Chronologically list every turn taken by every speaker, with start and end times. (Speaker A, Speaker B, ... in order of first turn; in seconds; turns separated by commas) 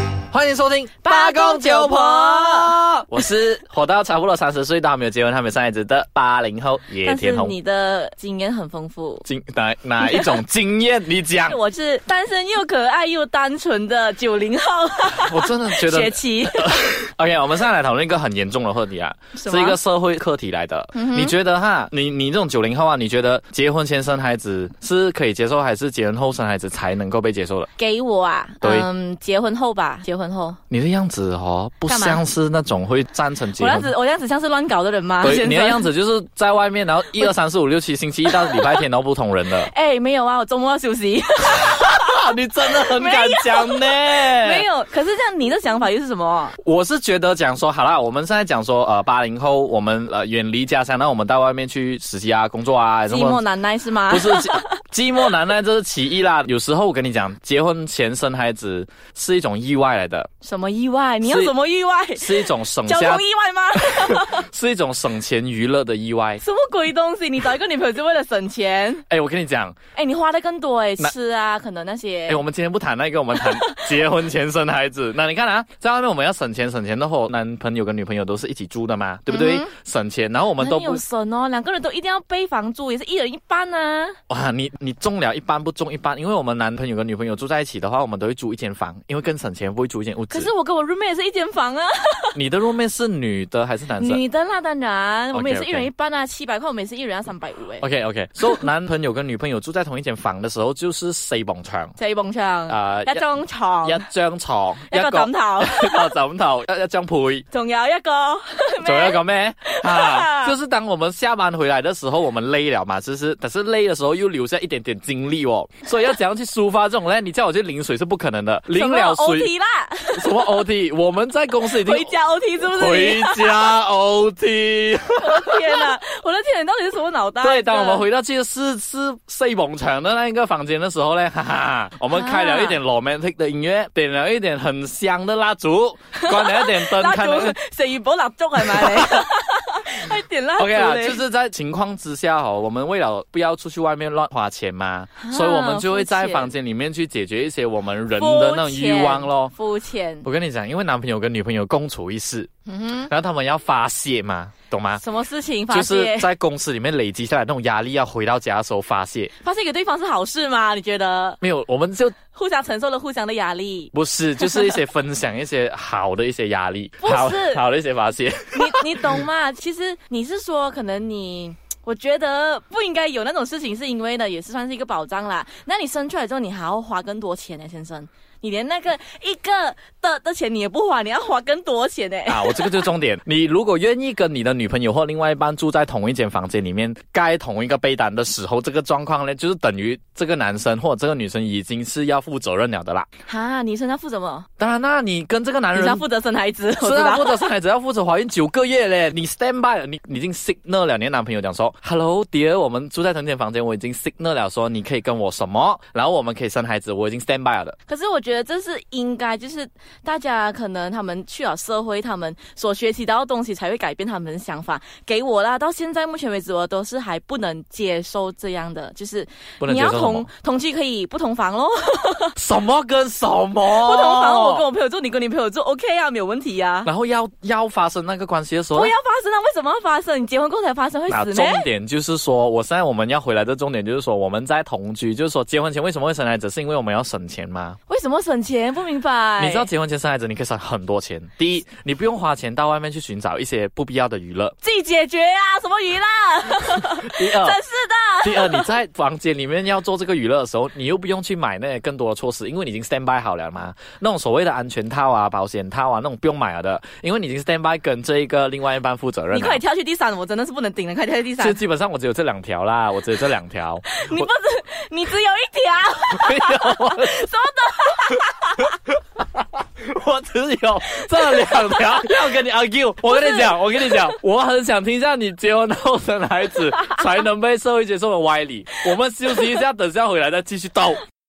Speaker A: 0.3-7.5, Speaker B: 1.0-2.8, Speaker B: 7.0-9.2, Speaker A: 9.2-11.6, Speaker B: 10.0-10.4, Speaker B: 11.4-16.8, Speaker A: 15.2-27.7, Speaker B: 19.3-19.8, Speaker B: 20.9-21.3, Speaker B: 27.8-30.6, Speaker A: 28.6-28.9, Speaker A: 30.7-33.9, Speaker B: 31.9-32.2, Speaker B: 33.6-35.9, Speaker A: 35.2-39.7, Speaker B: 38.3-38.8, Speaker B: 39.6-42.2, Speaker A: 41.5-44.6, Speaker B: 42.8-46.5, Speaker A: 46.6-53.4, Speaker B: 53.1-54.8, Speaker A: 54.1-60.3, Speaker B: 60.4-64.5, Speaker A: 61.2-61.5, Speaker A: 62.2-63.2, Speaker A: 63.7-66.4, Speaker B: 66.4-69.0, Speaker A: 69.1-69.8, Speaker B: 69.9-72.4, Speaker A: 72.3-81.0, Speaker B: 73.4-73.9, Speaker B: 79.3-79.7, Speaker B: 80.6-84.2, Speaker A: 84.3-90.5, Speaker B: 90.3-92.3, Speaker A: 92.3-94.2, Speaker B: 93.9-97.9, Speaker A: 95.3-95.9, Speaker A: 97.8-102.0, Speaker B: 102.0-104.0, Speaker A: 102.7-103.2, Speaker A: 103.8-107.5, Speaker B: 104.9-106.1, Speaker B: 107.5-110.5, Speaker A: 108.8-119.5, Speaker B: 118.7-120.4, Speaker A: 120.1-125.9, Speaker B: 121.7-123.7, Speaker B: 125.2-128.0, Speaker A: 127.4-137.6, Speaker B: 132.1-132.8, Speaker B: 136.2-141.2, Speaker A: 138.6-139.3, Speaker A: 140.6-149.5, Speaker B: 145.2-146.5, Speaker B: 148.1-150.3, Speaker A: 150.2-152.5, Speaker B: 152.7-153.1, Speaker A: 153.0-155.0, Speaker B: 155.0-156.3, Speaker A: 155.7-159.3, Speaker B: 159.4-161.4, Speaker A: 161.4-162.1, Speaker B: 162.3-164.7, Speaker A: 163.9-169.2, Speaker B: 167.0-167.6, Speaker B: 168.5-182.8, Speaker A: 182.3-193.1, Speaker B: 193.2-194.4, Speaker A: 194.6-196.0, Speaker B: 195.7-197.5, Speaker A: 196.8-207.8, Speaker B: 207.9-222.3, Speaker A: 219.6-220.3, Speaker A: 222.3-224.6, Speaker B: 223.7-226.9, Speaker A: 226.8-228.9, Speaker B: 228.7-231.6, Speaker A: 231.1-237.8, Speaker B: 237.9-239.7, Speaker A: 239.4-244.5, Speaker B: 244.6-248.7, Speaker A: 246.8-247.6, Speaker A: 248.2-259.6, Speaker B: 259.3-261.6, Speaker A: 261.4-264.3, Speaker B: 263.9-268.7, Speaker A: 266.1-267.2, Speaker A: 269.2-281.0, Speaker B: 271.1-272.1, Speaker B: 273.1-273.5